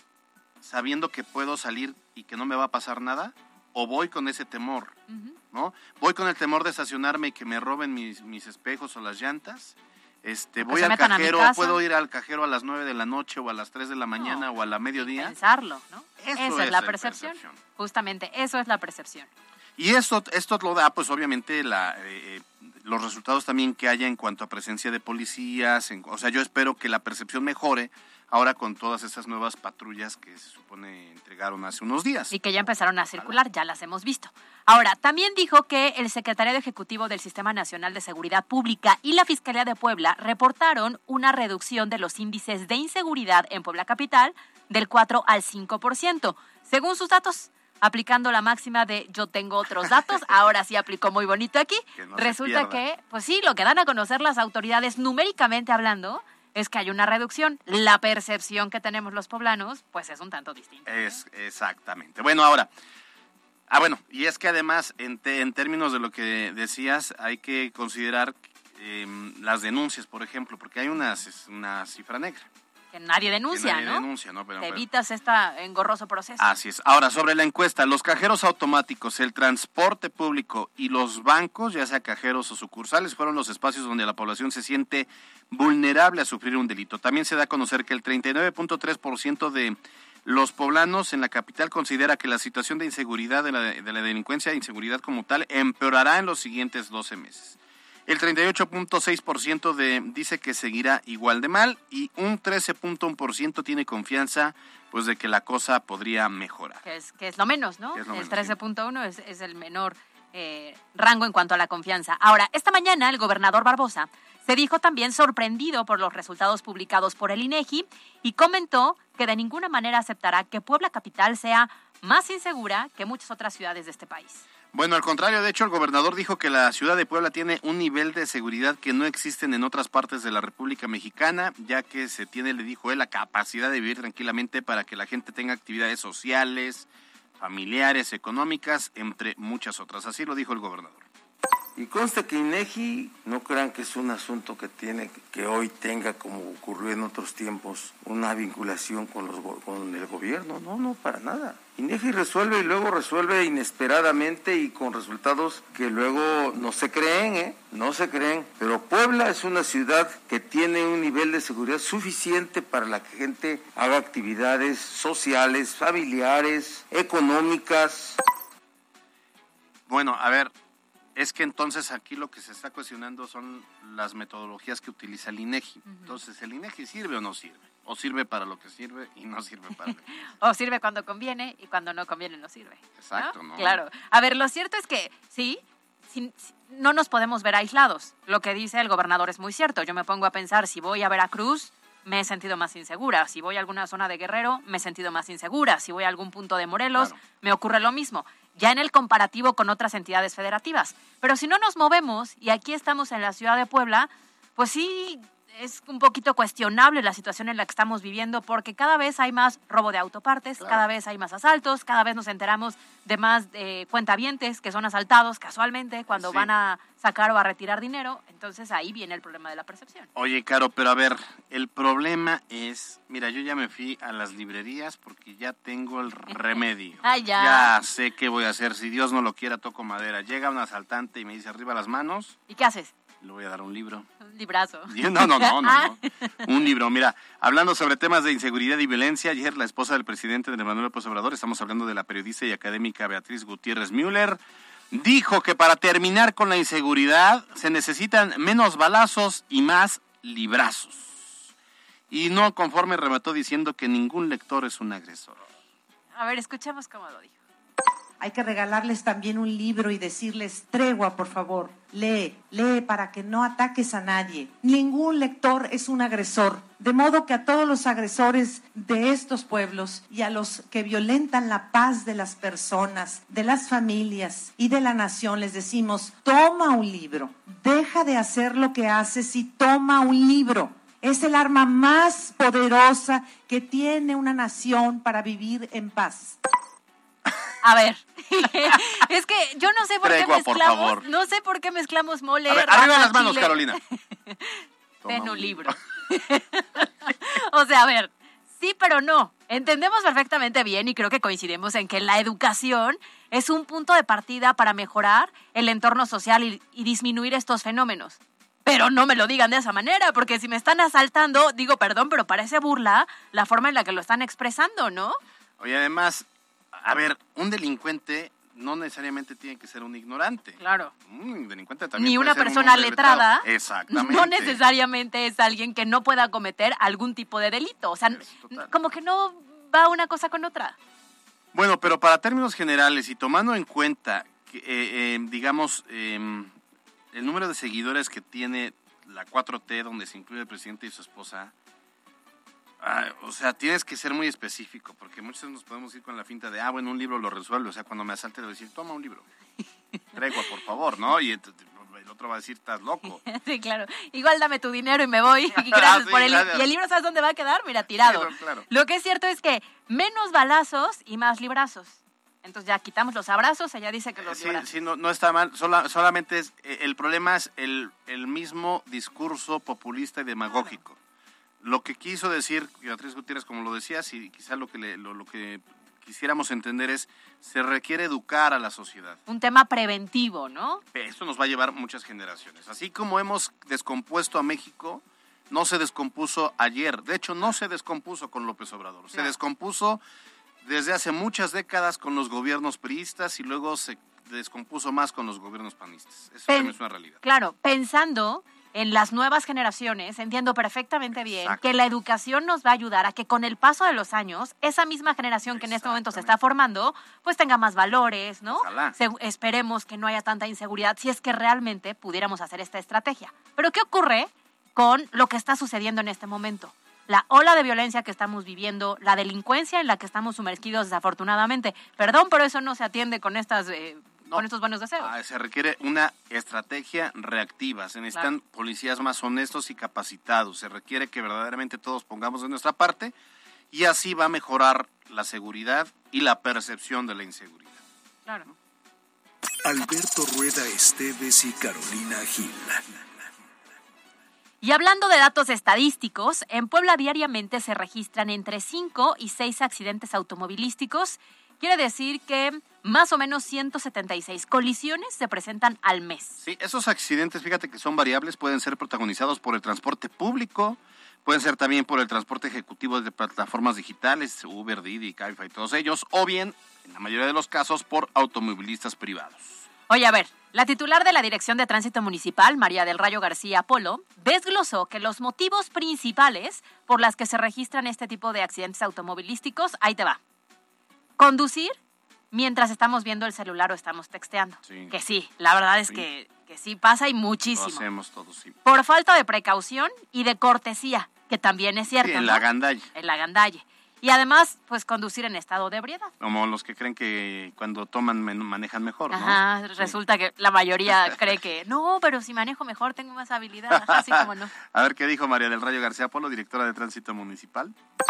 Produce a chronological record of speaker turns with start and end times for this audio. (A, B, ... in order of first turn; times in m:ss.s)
0:00.6-0:05.0 A
0:05.1-0:05.4 B
0:05.5-0:15.4 A
0:10.6-0:11.8 B
0:14.2-0:14.5 B
0:15.0-0:19.3 B
0:16.2-0:17.6 A
0:19.8-0:32.3 A
0:32.3-1:01.2 B
0:52.0-0:52.8 A
1:00.9-1:02.7 A
1:03.7-1:12.5 A
1:12.9-1:14.1 B
1:13.5-1:14.8 A
1:14.6-1:16.5 B
1:16.4-1:46.8 A
1:46.8-2:04.4 B
1:48.0-1:48.5 A
2:04.7-2:21.1 A
2:21.8-2:48.2 C
2:49.9-2:50.5 A
2:51.2-3:00.1 A
2:55.9-2:56.1 B
3:00.4-3:40.1 B
3:03.0-3:03.8 A
3:36.1-3:36.5 A
3:40.1-3:52.4 A
3:47.0-3:47.7 B
3:52.5-3:52.9 B
3:53.2-3:54.1 A
3:54.2-3:56.3 B
3:54.9-4:04.4 A
4:04.9-4:11.4 A
4:12.1-4:15.4 A
4:16.1-4:17.3 B
4:18.2-4:46.4 D
4:47.6-5:15.2 B
4:50.0-4:51.0 A
4:52.5-4:53.8 A
4:55.0-4:55.8 A
5:15.6-5:24.6 A
5:20.6-5:20.9 B
5:22.0-5:30.8 B
5:28.1-5:28.7 A
5:31.5-5:36.5 A
5:37.1-5:41.5 A
5:42.8-5:49.2 A
5:50.1-5:53.2 A
5:53.2-6:04.7 B
5:55.6-5:56.7 A
5:58.0-5:58.6 A
6:04.2-6:11.0 A
6:10.5-6:10.8 B
6:11.6-6:19.2 A
6:19.3-6:20.8 B
6:20.9-6:30.0 A
6:30.6-6:37.2 A
6:36.5-7:05.1 B
6:41.2-6:41.6 A
6:45.5-6:46.3 A
6:48.5-6:49.0 A
7:05.0-7:13.1 A
7:13.7-7:17.8 A
7:19.6-7:22.8 E
7:24.6-7:36.4 B
7:36.4-7:49.6 A
7:49.9-8:00.2 B
8:01.2-8:01.8 B
8:02.3-8:07.8 B
8:04.6-8:04.9 A
8:07.5-8:08.6 A
8:08.6-8:16.1 B
8:12.0-8:12.9 A
8:16.2-8:19.9 A
8:19.1-8:24.5 B
8:23.7-8:27.7 A